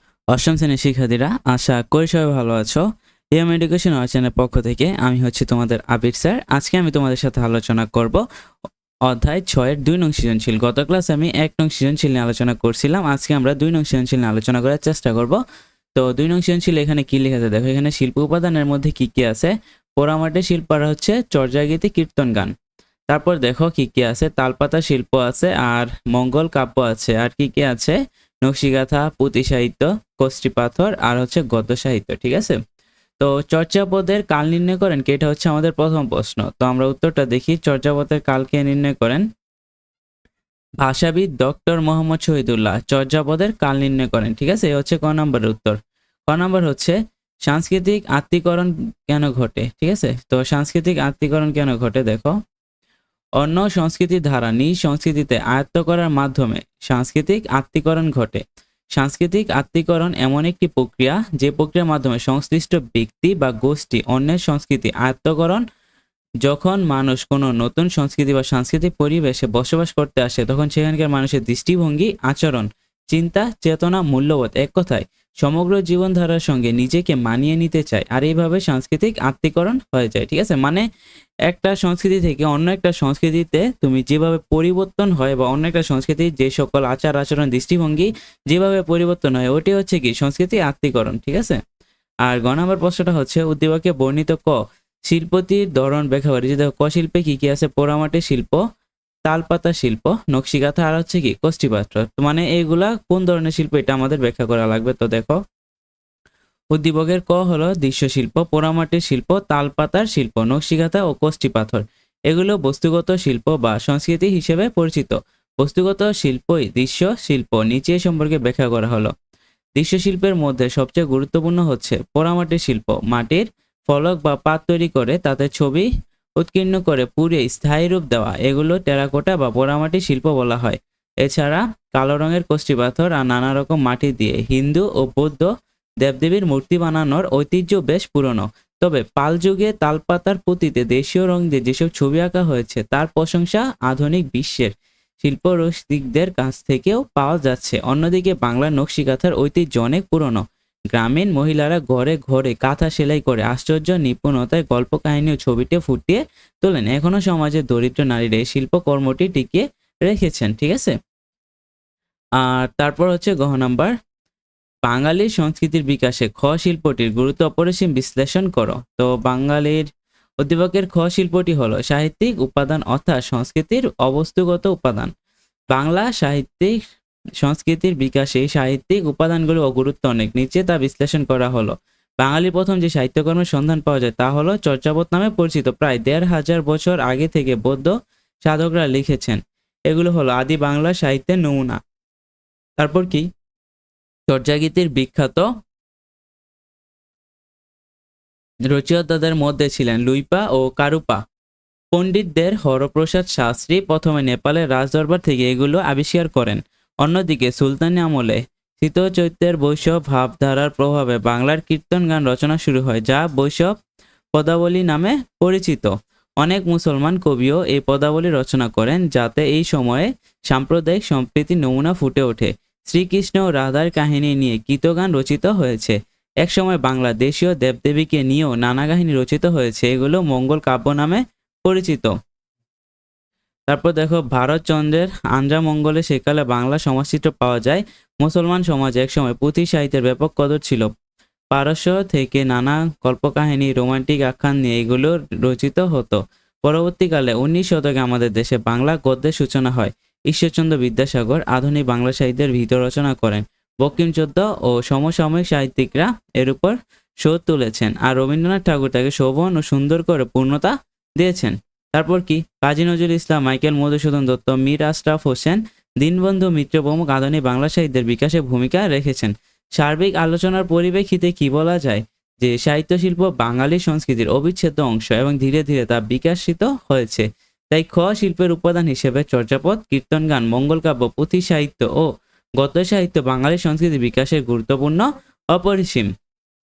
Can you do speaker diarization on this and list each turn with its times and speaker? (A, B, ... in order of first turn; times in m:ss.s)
0:00.3-0:08.2 A
0:09.1-0:15.4 A
0:16.0-0:22.5 A
0:23.1-0:32.6 A
0:33.2-0:39.2 A
0:40.8-0:45.8 A
0:46.3-0:47.0 A
0:47.5-0:52.4 A
0:53.4-0:58.4 A
0:59.0-1:05.6 A
1:06.4-1:20.8 A
1:21.5-1:31.6 A
1:32.2-1:38.6 A
1:39.3-1:45.4 A
1:46.7-1:59.1 A
1:59.8-2:05.9 A
2:06.4-2:15.5 A
2:16.0-2:40.9 A
2:42.4-2:43.9 A
2:44.9-2:49.8 A
2:50.4-2:55.1 A
2:55.7-2:56.8 A
2:57.4-3:07.9 A
3:08.4-3:11.8 A
3:12.8-3:13.2 A
3:14.3-3:15.5 A
3:18.7-3:21.2 A
3:21.9-3:33.8 A
3:34.4-3:52.1 A
3:53.7-4:00.9 A
4:01.5-4:42.1 A
4:42.6-4:46.1 A